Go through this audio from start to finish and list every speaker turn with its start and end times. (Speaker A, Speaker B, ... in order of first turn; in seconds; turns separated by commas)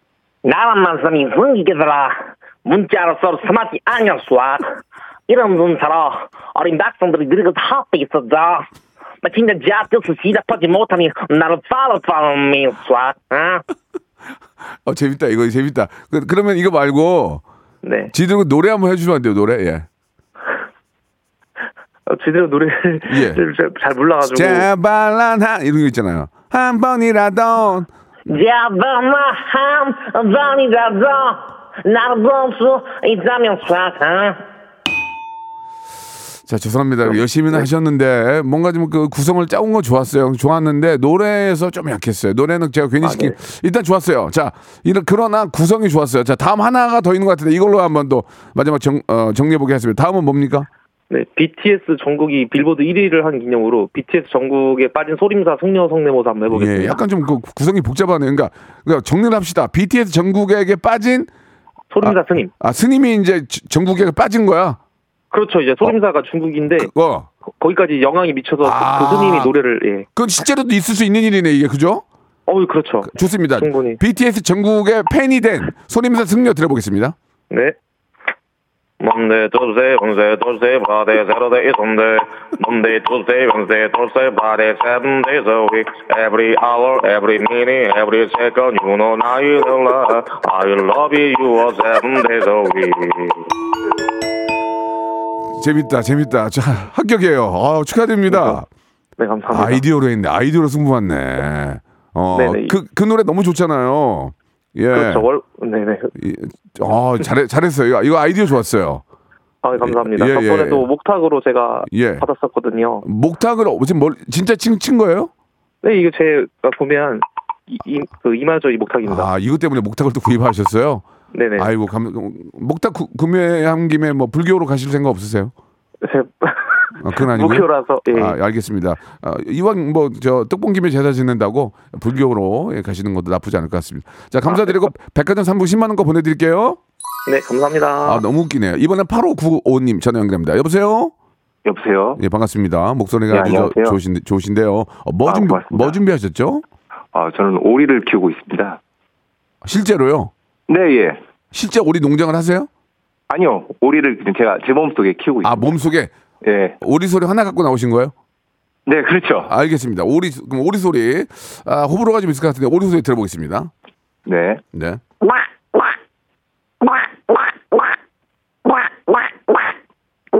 Speaker A: 0.5-4.7, Speaker A: 5.3-8.7, Speaker A: 9.2-13.6, Speaker B: 14.8-17.4, Speaker C: 17.8-18.1, Speaker B: 18.1-19.9, Speaker C: 22.1-24.7, Speaker B: 23.1-23.4, Speaker B: 24.2-27.9, Speaker A: 28.3-34.4, Speaker B: 36.5-50.7, Speaker C: 43.0-43.3, Speaker C: 51.1-57.0, Speaker B: 56.5-61.3, Speaker C: 61.9-62.5, Speaker B: 62.0-64.8, Speaker C: 65.3-66.9, Speaker B: 66.7-67.3, Speaker C: 67.6-70.1, Speaker B: 68.6-69.5, Speaker B: 70.2-72.0, Speaker C: 72.5-74.0, Speaker B: 73.0-77.2, Speaker C: 77.5-77.8, Speaker C: 79.0-93.5, Speaker B: 95.6-98.7, Speaker C: 98.3-98.6, Speaker C: 99.2-99.8, Speaker B: 99.5-105.3, Speaker C: 102.3-102.8, Speaker C: 104.9-106.1, Speaker B: 106.2-109.0, Speaker C: 109.6-113.0, Speaker B: 109.8-110.9, Speaker B: 111.9-112.3, Speaker B: 113.0-115.3, Speaker C: 115.8-119.3, Speaker B: 119.0-121.0, Speaker C: 121.3-121.7, Speaker B: 121.6-125.5, Speaker C: 126.0-128.4, Speaker B: 127.0-136.8, Speaker C: 134.5-134.8, Speaker C: 137.3-138.2, Speaker B: 138.0-141.1, Speaker D: 141.7-142.2, Speaker B: 142.2-146.6, Speaker D: 143.3-144.0, Speaker D: 145.2-146.0, Speaker D: 147.1-148.8, Speaker B: 149.6-150.3, Speaker D: 150.7-151.2, Speaker B: 151.5-152.7, Speaker D: 153.3-155.7, Speaker B: 155.4-156.1, Speaker D: 156.4-156.8, Speaker B: 156.8-158.1, Speaker D: 158.9-159.5, Speaker B: 159.5-163.7, Speaker D: 164.3-164.6, Speaker B: 164.7-165.0